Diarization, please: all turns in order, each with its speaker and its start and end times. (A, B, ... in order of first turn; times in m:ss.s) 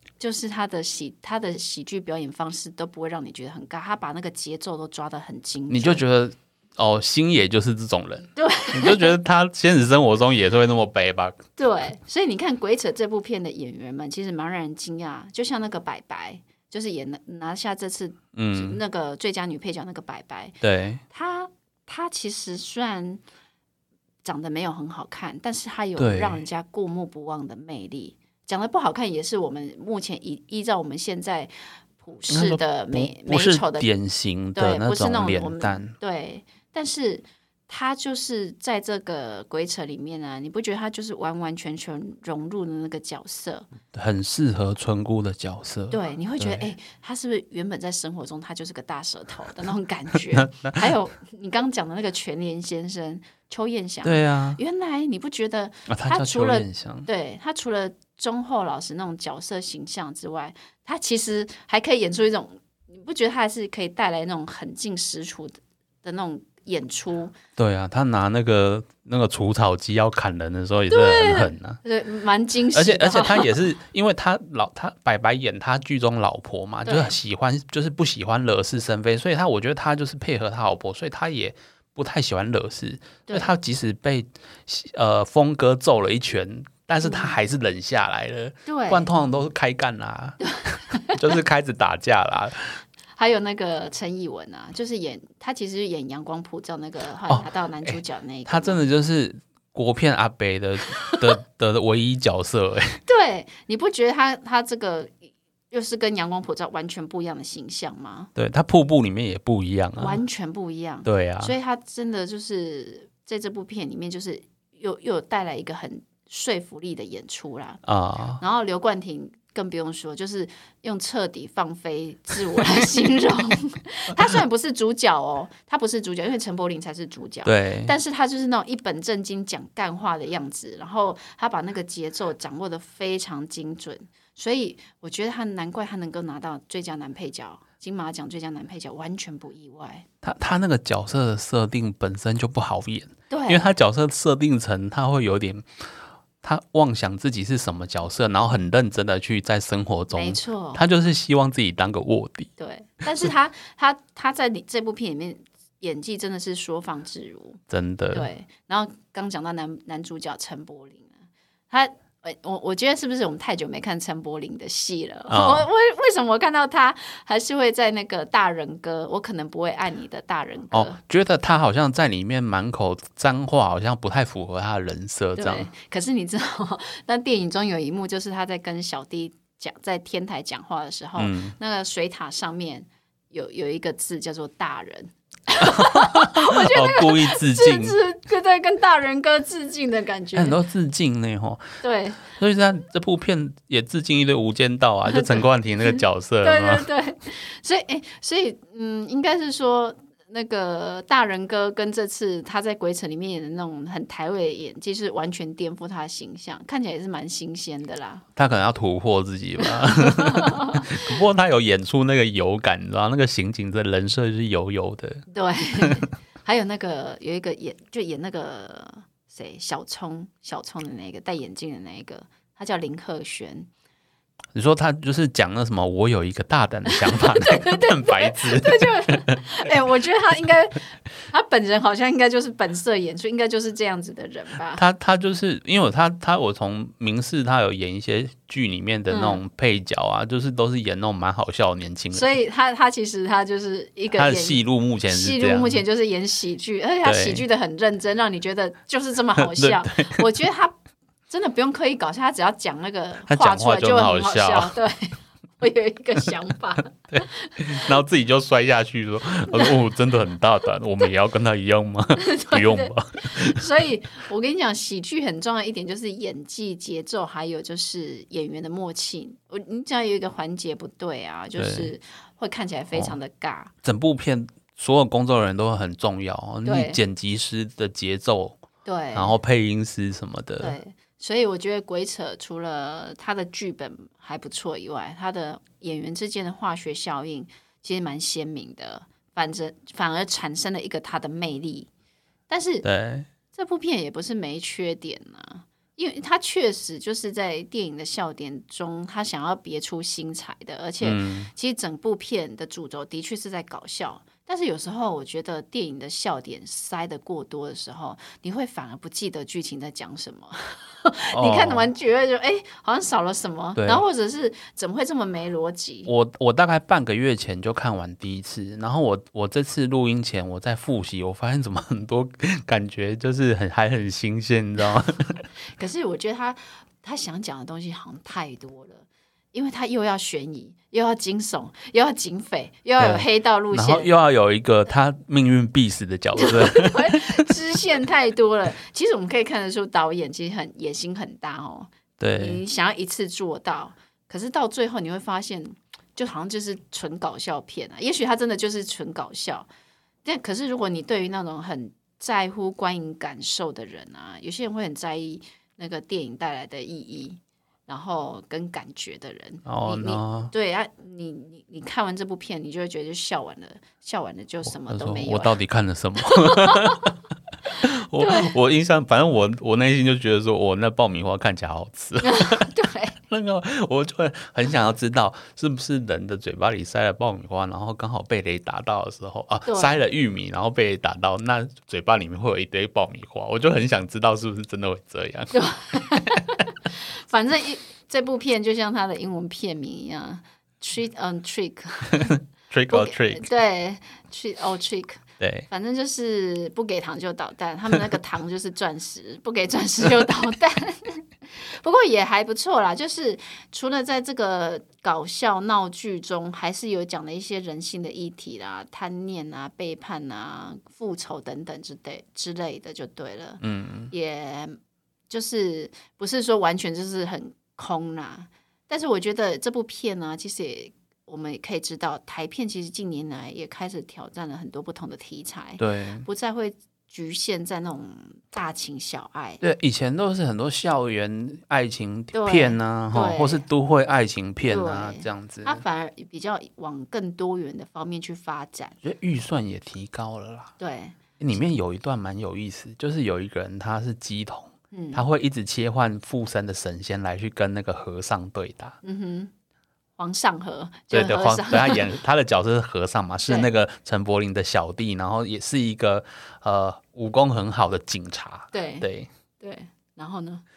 0:00.2-0:06.0 A
0:05.7-0:11.4 B
0:08.4-0:09.2 A
0:11.6-0:20.6 A
0:18.3-0:18.8 B
0:20.6-0:21.0 B
0:21.1-0:23.2 A
0:24.2-0:33.9 A
0:26.0-0:26.4 B
0:32.3-0:35.9 B
0:34.5-0:43.7 A
0:43.9-0:46.7 B
0:45.9-1:07.3 A
0:50.3-0:50.8 B
0:54.0-0:54.6 B
0:55.9-0:57.1 B
1:07.6-1:11.8 B
1:10.9-1:13.5 A
1:12.7-1:32.8 B
1:16.8-1:17.2 A
1:23.3-1:23.5 A
1:27.0-1:27.3 A
1:28.6-1:29.1 A
1:30.4-1:31.2 A
1:33.2-1:38.8 A
1:37.3-1:43.0 B
1:40.9-1:41.3 A
1:43.0-1:48.3 A
1:48.4-1:50.2 B
1:50.0-1:57.8 A
1:51.0-1:51.5 B
1:57.8-1:58.4 B
1:58.4-2:20.0 A
2:07.4-2:07.9 B
2:20.2-2:25.9 B
2:23.3-2:23.7 A
2:26.4-2:32.5 B
2:30.1-2:30.8 A
2:32.6-2:37.6 A
2:37.7-2:38.3 B
2:38.1-2:41.1 A
2:41.7-2:51.0 A
2:45.3-2:45.7 B
2:50.7-2:55.7 B
2:55.4-3:10.6 A
3:01.2-3:01.5 B
3:05.6-3:08.0 B
3:10.3-3:16.9 B
3:11.8-3:12.3 A
3:15.1-3:28.2 A
3:28.4-3:35.2 B
3:29.8-3:30.9 A
3:35.3-3:43.7 A
3:35.8-3:36.0 B
3:44.5-3:49.4 B
3:46.9-3:54.8 A
3:54.7-4:02.3 B
3:59.1-3:59.4 A
4:02.1-4:10.7 A
4:04.2-4:05.8 B
4:07.0-4:07.4 B
4:09.4-4:10.2 B
4:11.3-4:17.9 A
4:13.3-4:14.7 B
4:17.1-4:23.6 B
4:22.2-4:33.7 A
4:31.6-4:31.9 B
4:33.8-4:38.6 B
4:36.6-4:37.0 A
4:38.8-4:39.4 A
4:39.1-4:40.8 B
4:40.6-4:51.9 A
4:52.5-4:52.8 A
4:52.8-4:53.3 B
4:53.5-5:16.1 A
5:01.0-5:01.5 B
5:11.3-5:11.9 B
5:13.8-5:14.0 B
5:16.0-5:25.4 B
5:25.8-5:34.1 A
5:33.0-5:37.4 B
5:36.4-5:49.7 A
5:42.2-5:42.6 B
5:50.2-6:05.6 A
5:59.6-6:00.5 B
6:04.6-6:07.2 B
6:06.2-6:07.1 A
6:07.7-6:12.7 B
6:08.2-6:08.5 A
6:12.2-6:13.2 A
6:13.3-6:25.5 B
6:19.6-6:20.0 A
6:25.5-6:32.3 A
6:32.2-6:33.5 B
6:32.9-6:54.8 A
6:35.4-6:35.7 B
6:53.6-6:54.1 B
6:55.3-7:09.6 A
7:05.8-7:06.2 B
7:09.6-7:15.8 B
7:12.3-7:13.6 A
7:14.7-7:19.0 A
7:19.0-7:20.7 B
7:20.8-7:21.2 A
7:21.4-7:29.0 B
7:24.9-7:25.2 A
7:29.0-7:29.5 A
7:30.2-7:32.1 A
7:31.1-7:39.3 B
7:38.7-7:39.1 A
7:39.6-7:40.6 A